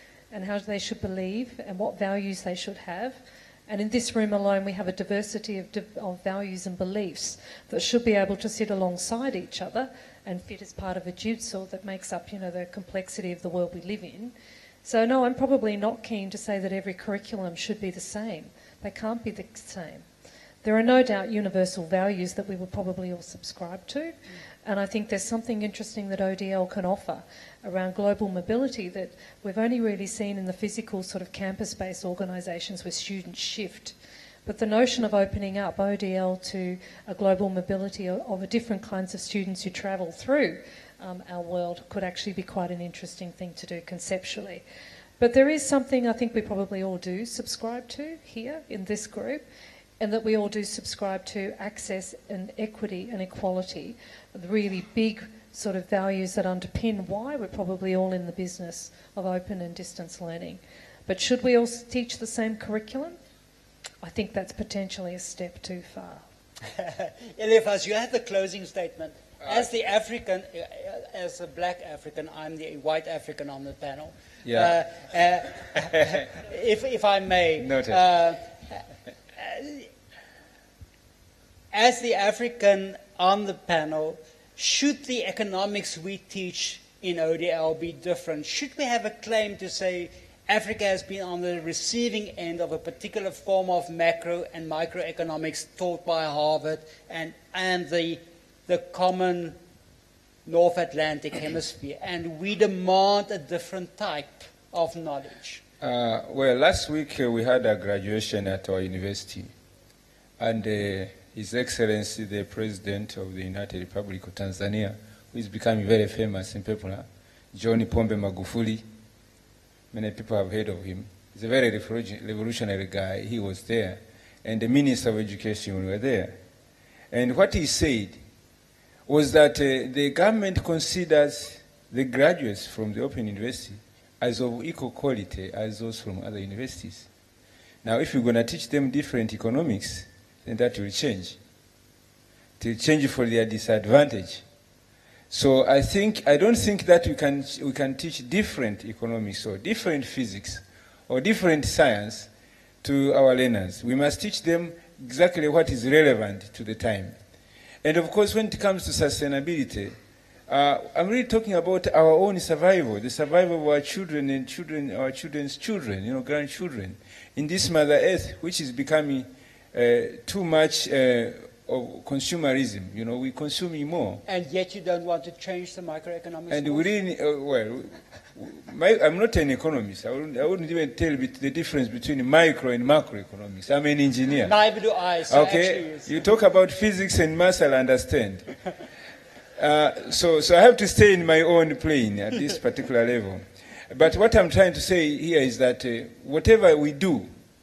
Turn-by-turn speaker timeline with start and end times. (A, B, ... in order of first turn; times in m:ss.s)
0:00.3-0:20.1 A
0:20.6-0:34.0 A
0:34.5-0:44.6 A
0:45.2-0:49.4 A
0:50.0-1:03.2 A
1:04.0-1:06.2 A
1:06.7-1:18.8 B
1:09.4-1:09.7 C
1:14.4-1:14.8 C
1:16.0-1:16.2 C
1:17.6-1:18.0 C
1:19.4-1:19.9 B
1:21.7-1:39.6 B
1:40.5-1:45.6 B
1:45.8-1:49.5 C
1:50.4-1:58.8 C
1:59.9-2:06.4 C
2:07.1-2:08.2 C
2:09.1-2:17.1 C
2:17.8-2:21.4 C
2:22.6-2:24.4 C
2:25.3-2:32.3 C
2:32.8-2:37.2 C
2:37.8-2:40.0 C
2:40.5-2:54.2 C
2:54.3-2:56.9 B
2:56.5-3:04.5 C
3:04.4-3:06.2 B
3:05.3-3:08.5 C
3:09.6-3:17.3 C